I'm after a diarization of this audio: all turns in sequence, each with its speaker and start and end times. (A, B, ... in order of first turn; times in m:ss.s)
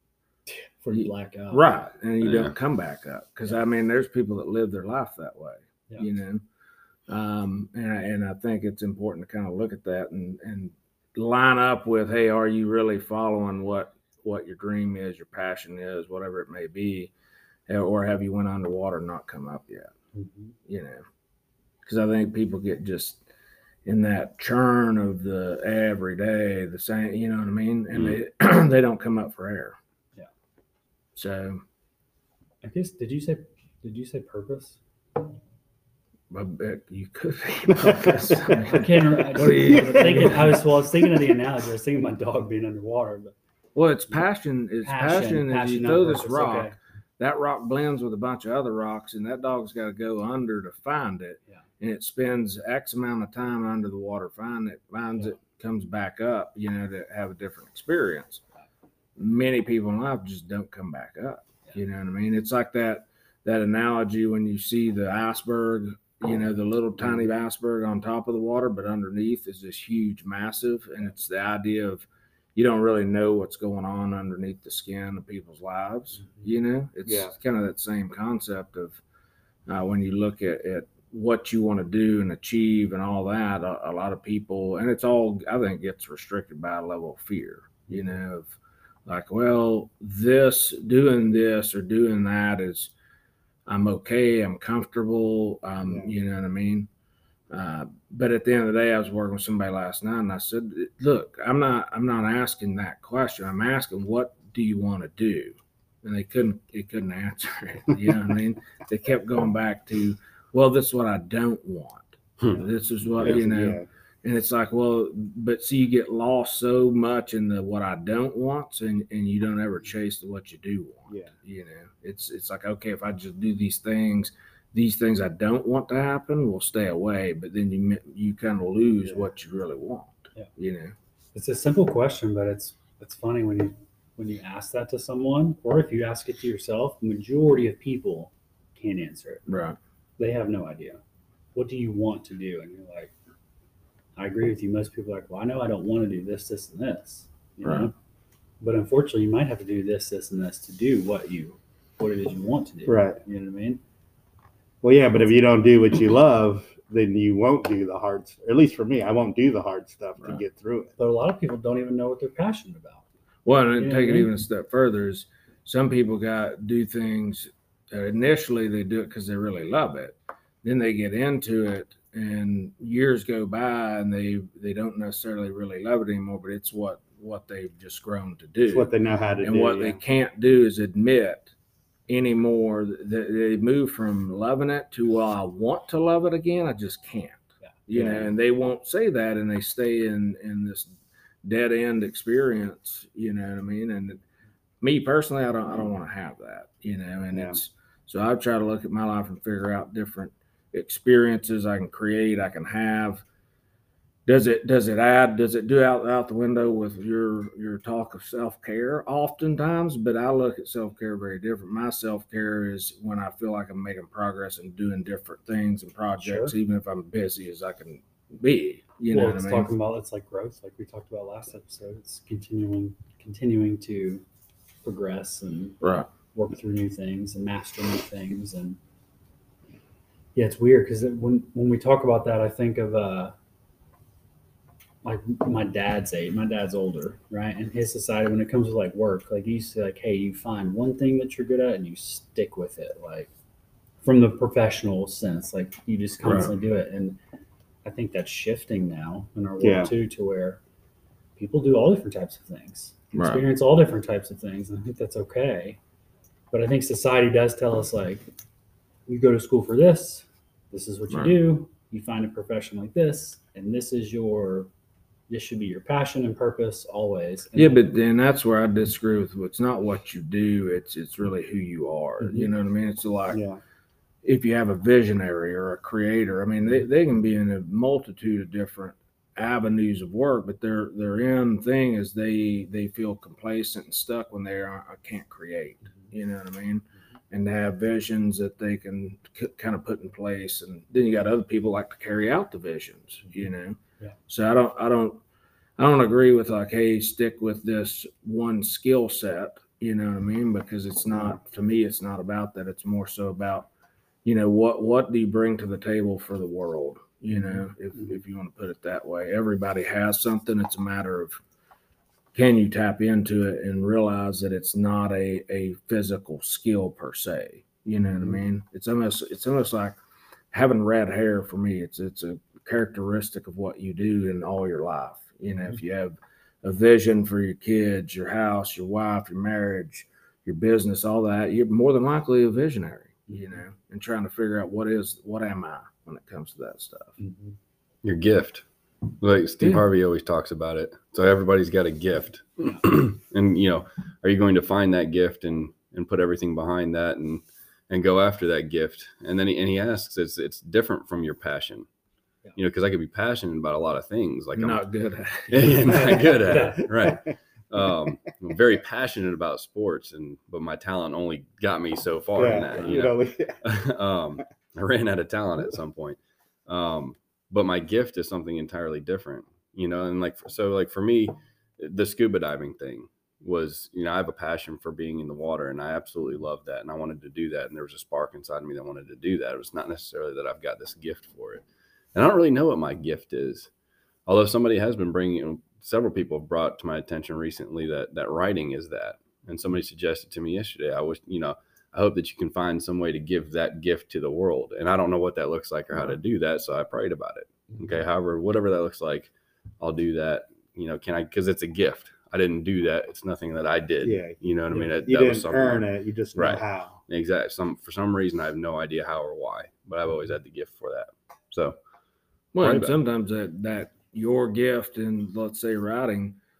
0:00.5-0:01.7 A
0:00.9-0:06.4 B
0:02.2-0:02.5 C
0:07.1-0:17.1 B
0:17.7-0:19.9 B
0:20.2-0:20.5 A
0:20.7-0:21.0 B
0:21.8-0:23.2 B
0:23.8-0:29.8 B
0:27.9-0:28.2 C
0:31.2-0:31.6 B
0:32.6-0:34.8 A
0:36.3-0:40.6 B
0:37.8-0:38.7 D
0:38.7-0:43.3 A
0:39.6-0:40.5 D
0:43.8-0:58.4 B
0:44.8-0:46.8 A
0:59.2-1:19.0 B
1:17.0-1:17.3 D
1:19.7-1:32.9 B
1:33.7-1:36.9 B
1:37.5-2:10.9 B
1:53.2-1:53.9 D
2:11.3-2:19.4 A
2:19.5-2:19.8 B
2:20.2-2:21.0 A
2:21.6-2:23.1 A
2:24.2-2:27.9 A
2:27.6-2:27.9 B
2:28.6-2:33.8 A
2:32.9-2:33.2 D
2:34.8-2:40.9 D
2:41.0-2:43.0 A
2:43.4-2:58.9 B
2:43.8-2:44.3 A
2:58.6-3:00.0 D
2:59.4-3:01.5 B
3:02.1-3:10.9 B
3:07.9-3:08.3 D
3:11.4-3:14.2 B
3:14.8-3:23.2 B
3:17.3-3:17.6 D
3:24.3-3:39.7 B
3:36.2-3:36.6 A
3:39.1-3:44.2 A
3:44.8-3:45.8 A
3:45.8-3:46.1 B
3:46.3-3:48.8 A
3:50.4-3:53.4 A
3:55.0-4:03.3 A
4:04.0-4:07.2 A
4:06.2-4:06.5 B
4:07.8-4:10.6 A
4:09.6-4:09.9 D
4:11.4-4:15.8 A
4:13.1-4:13.4 B
4:16.5-4:18.3 A
4:19.1-4:24.7 A
4:21.1-4:21.4 B
4:25.3-4:27.8 A
4:27.6-4:33.4 B
4:33.3-4:33.6 D
4:34.2-4:55.2 B
4:55.8-5:03.7 B
5:04.2-5:11.4 B
5:12.4-5:20.0 B
5:20.5-5:37.2 B
5:37.2-5:37.6 A
5:38.0-5:38.6 C
5:39.2-5:51.9 C
5:52.6-5:54.8 C
5:54.6-5:56.3 B
5:55.5-6:21.6 C
5:56.1-5:57.3 D
5:56.4-5:56.8 A
6:02.4-6:03.6 D
6:22.2-6:23.7 C
6:24.3-6:51.8 C
6:44.0-6:47.0 D
6:52.6-6:56.4 B
6:52.6-6:52.9 C